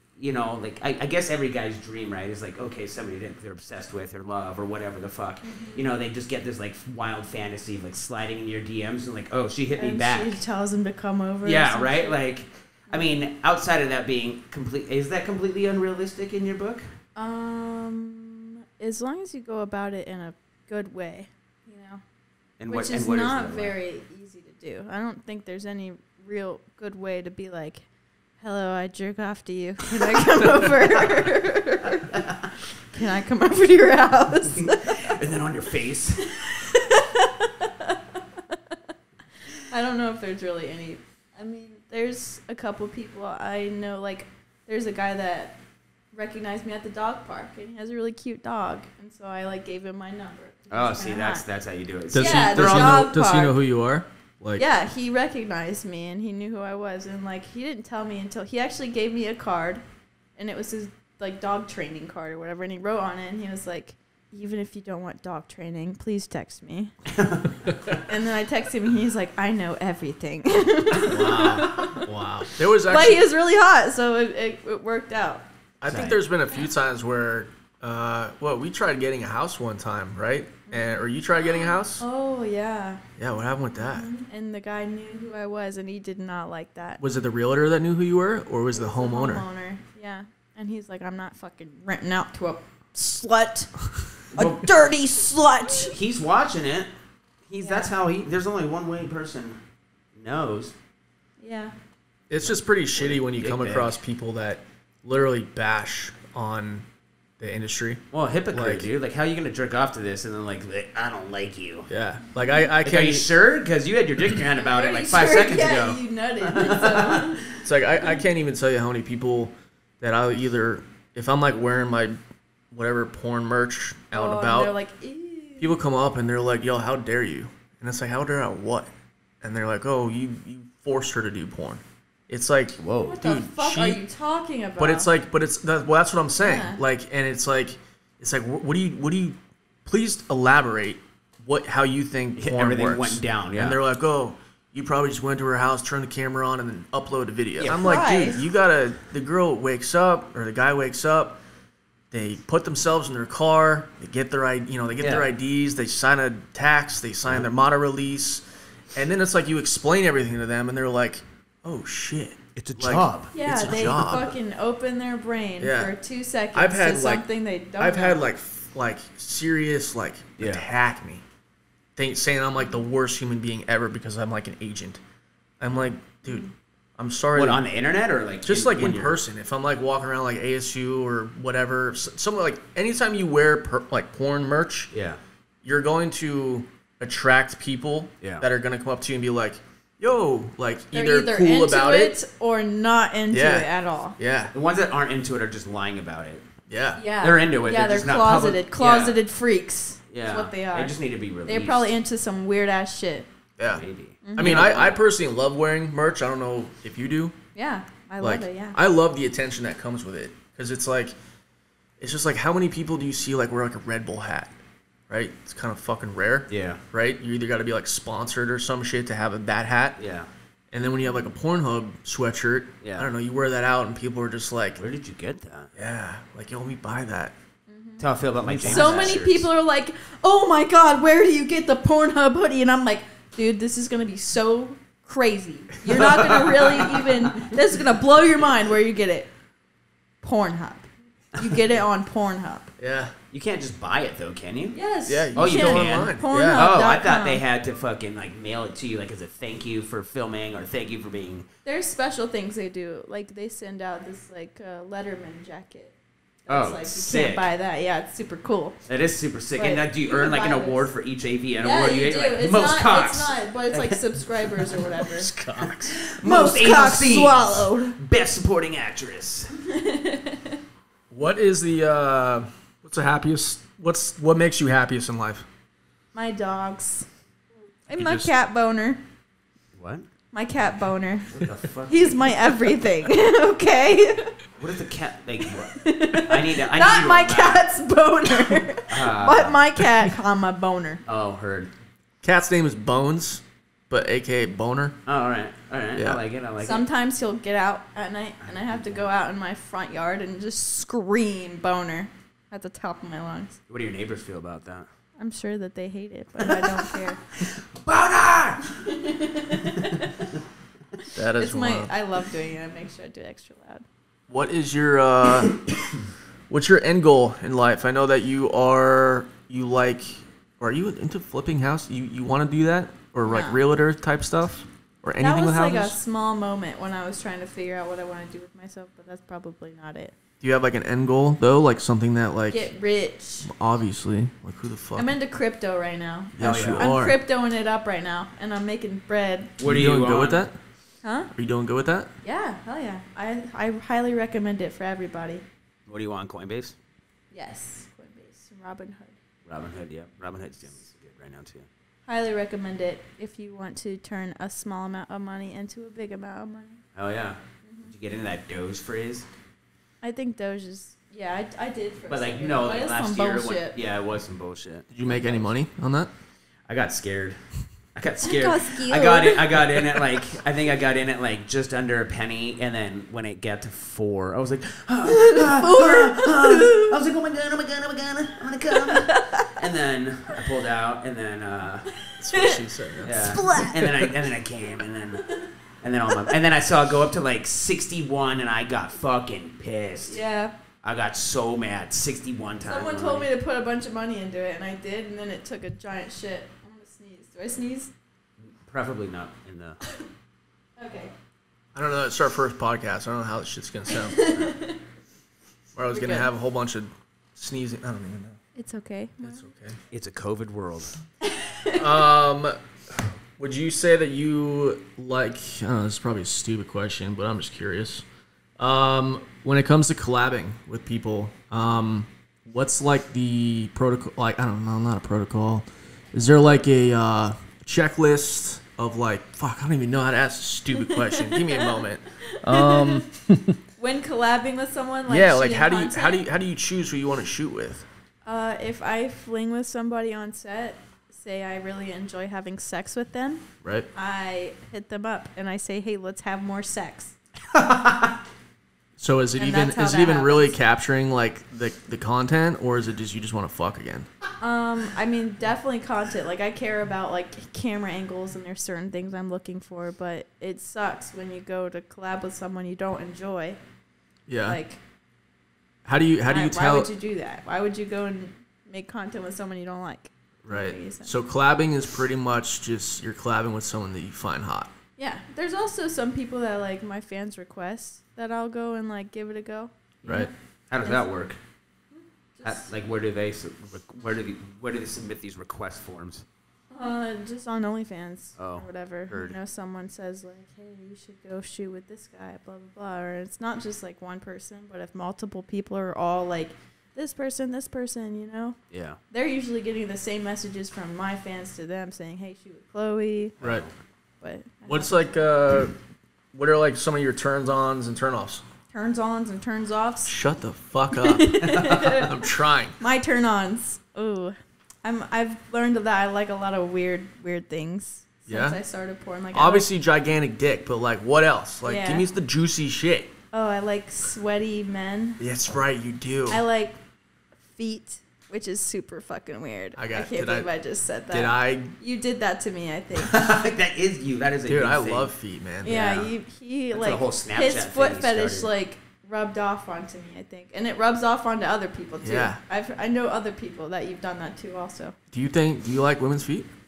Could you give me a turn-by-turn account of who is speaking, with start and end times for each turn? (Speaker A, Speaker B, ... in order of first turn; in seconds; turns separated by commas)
Speaker A: 0.2-10.4, Speaker B: 5.4-5.8, Speaker B: 9.8-12.2, Speaker A: 11.4-16.9, Speaker B: 12.9-13.3, Speaker B: 17.1-22.0, Speaker A: 22.6-23.7, Speaker B: 22.7-27.9, Speaker B: 28.4-35.2, Speaker A: 32.1-32.4, Speaker A: 34.5-36.3, Speaker B: 36.2-38.7, Speaker B: 39.6-45.6, Speaker B: 46.1-51.4, Speaker A: 50.7-53.0, Speaker C: 52.1-54.6, Speaker B: 52.1-53.6, Speaker B: 54.6-59.8, Speaker B: 60.4-66.9, Speaker A: 67.1-67.5, Speaker C: 67.7-68.0, Speaker B: 68.0-75.4, Speaker C: 71.1-73.2, Speaker A: 71.1-71.6, Speaker C: 75.8-82.0, Speaker A: 75.9-76.2, Speaker B: 81.9-83.0, Speaker C: 83.2-84.1, Speaker B: 83.8-87.0, Speaker C: 87.0-89.4, Speaker B: 88.8-93.7, Speaker A: 94.3-94.6, Speaker B: 94.3-96.0, Speaker A: 95.8-96.9, Speaker A: 97.5-99.6, Speaker B: 97.6-97.9, Speaker A: 100.2-100.7, Speaker B: 101.4-101.7, Speaker C: 102.3-106.8, Speaker A: 102.4-104.0, Speaker C: 107.4-108.9, Speaker A: 108.1-111.9, Speaker C: 111.9-113.3, Speaker A: 112.8-117.6, Speaker B: 114.6-117.5, Speaker C: 117.6-122.2, Speaker C: 122.7-124.7, Speaker B: 124.1-125.7, Speaker C: 125.6-128.9, Speaker C: 129.4-134.0, Speaker A: 132.8-133.2, Speaker B: 133.1-135.1, Speaker C: 134.8-151.4, Speaker B: 136.4-136.8, Speaker A: 142.3-143.8, Speaker A: 147.6-147.8, Speaker B: 147.7-148.4, Speaker C: 152.1-158.4, Speaker A: 155.0-155.3, Speaker C: 158.9-164.3, Speaker A: 162.6-164.2, Speaker B: 163.3-168.2, Speaker C: 165.6-165.9, Speaker C: 166.5-167.2, Speaker C: 167.8-171.2, Speaker A: 170.4-170.7, Speaker C: 171.9-175.0, Speaker C: 175.6-177.6, Speaker A: 177.3-179.2, Speaker C: 178.4-184.9, Speaker A: 184.9-185.2, Speaker C: 185.6-192.2, Speaker A: 188.2-188.4, Speaker B: 190.9-194.2, Speaker C: 193.3-194.5, Speaker A: 194.5-196.4, Speaker C: 196.7-197.0, Speaker B: 196.9-203.3, Speaker A: 197.2-199.2, Speaker A: 200.1-201.9, Speaker C: 203.6-207.3, Speaker A: 203.7-205.0, Speaker B: 204.2-204.7, Speaker B: 207.5-208.8, Speaker C: 208.2-211.1, Speaker C: 212.0-214.5, Speaker C: 215.1-220.0, Speaker A: 216.5-216.8, Speaker A: 220.0-220.3, Speaker C: 220.7-224.8, Speaker A: 222.8-223.1, Speaker A: 224.8-225.7, Speaker C: 225.8-227.3, Speaker B: 227.7-228.1, Speaker A: 228.0-229.5, Speaker C: 228.4-229.2, Speaker B: 228.6-239.3, Speaker A: 236.0-236.9, Speaker B: 240.2-242.7, Speaker C: 242.8-243.1, Speaker A: 243.3-244.8, Speaker B: 244.7-247.4, Speaker C: 245.1-246.7, Speaker A: 245.3-251.5, Speaker B: 251.6-258.8, Speaker A: 256.5-257.5, Speaker A: 258.9-264.0, Speaker B: 259.6-260.9, Speaker B: 261.6-265.3, Speaker A: 264.6-264.9, Speaker C: 265.1-266.0, Speaker A: 265.6-269.5, Speaker B: 266.2-268.0, Speaker B: 269.6-270.6, Speaker C: 271.1-275.5, Speaker B: 276.1-277.1, Speaker B: 277.9-279.0, Speaker C: 278.0-278.3, Speaker A: 279.8-280.1, Speaker B: 280.3-284.4, Speaker A: 281.3-282.3, Speaker A: 284.6-287.6, Speaker B: 285.6-291.0, Speaker A: 288.9-289.6, Speaker A: 291.1-291.7, Speaker C: 292.2-295.0, Speaker A: 295.1-296.8, Speaker C: 295.9-296.2, Speaker B: 296.6-303.6, Speaker A: 298.4-299.1, Speaker A: 303.7-304.9, Speaker B: 305.2-307.2, Speaker A: 306.4-308.8, Speaker B: 308.7-310.2, Speaker A: 309.6-309.9, Speaker C: 311.1-311.9, Speaker B: 311.3-313.8, Speaker C: 314.3-315.6, Speaker C: 316.5-326.0, Speaker B: 323.2-323.6, Speaker B: 325.2-330.1, Speaker C: 330.4-332.7, Speaker B: 332.5-333.5, Speaker C: 333.4-335.1, Speaker B: 334.9-339.5, Speaker C: 336.4-337.2, Speaker A: 336.4-336.9, Speaker A: 339.6-340.4, Speaker C: 339.6-340.6, Speaker B: 341.0-341.3, Speaker C: 341.3-342.1, Speaker B: 342.2-345.4, Speaker A: 345.9-346.8, Speaker B: 347.3-349.2, Speaker A: 349.4-351.7, Speaker B: 352.1-356.8, Speaker A: 356.9-359.2, Speaker B: 357.6-357.9, Speaker B: 360.0-363.7, Speaker A: 362.1-365.4, Speaker C: 364.9-366.1, Speaker A: 366.7-367.4, Speaker A: 367.9-381.9, Speaker B: 368.2-370.0, Speaker B: 375.1-376.9, Speaker B: 378.7-379.5, Speaker C: 382.2-383.4, Speaker B: 382.3-384.1, Speaker A: 383.0-390.2, Speaker B: 390.1-390.5, Speaker A: 390.8-393.3, Speaker B: 392.6-397.9, Speaker A: 398.4-399.8, Speaker B: 400.8-401.1, Speaker C: 401.7-404.3, Speaker B: 403.9-404.8, Speaker C: 405.7-408.4, Speaker B: 405.9-406.3, Speaker B: 408.5-409.4, Speaker C: 409.2-409.8, Speaker A: 409.9-411.0, Speaker B: 411.2-411.8, Speaker C: 411.7-418.0, Speaker C: 418.6-433.6, Speaker B: 430.8-433.1, Speaker B: 433.8-436.2, Speaker C: 435.1-437.9, Speaker B: 438.2-447.1, Speaker A: 447.5-448.2, Speaker C: 449.0-454.1, Speaker B: 449.4-450.6, Speaker B: 454.4-463.6, Speaker C: 464.3-464.6, Speaker B: 464.4-464.8, Speaker C: 465.8-466.9, Speaker B: 466.2-471.1, Speaker C: 470.4-474.7, Speaker B: 475.0-481.1, Speaker C: 480.0-480.3, Speaker A: 480.7-481.4, Speaker B: 482.3-482.7, Speaker A: 482.4-486.2, Speaker B: 486.7-498.6, Speaker A: 488.4-489.4, Speaker A: 498.7-499.0, Speaker B: 499.1-503.3, Speaker A: 503.4-503.7, Speaker C: 503.4-503.6, Speaker B: 504.2-505.1, Speaker C: 504.6-505.8, Speaker C: 506.3-508.4, Speaker B: 508.7-510.1, Speaker C: 510.1-512.8, Speaker B: 510.9-512.1, Speaker B: 512.8-519.7, Speaker C: 518.3-518.6, Speaker C: 519.3-523.1, Speaker B: 521.6-522.0, Speaker B: 523.3-525.2, Speaker C: 525.2-526.4, Speaker B: 526.3-526.8, Speaker B: 527.5-533.2, Speaker C: 529.8-530.5, Speaker C: 531.1-531.7, Speaker A: 533.0-535.1, Speaker C: 534.5-536.1, Speaker B: 535.6-544.9, Speaker A: 536.7-538.5, Speaker C: 542.0-542.4, Speaker C: 545.1-546.5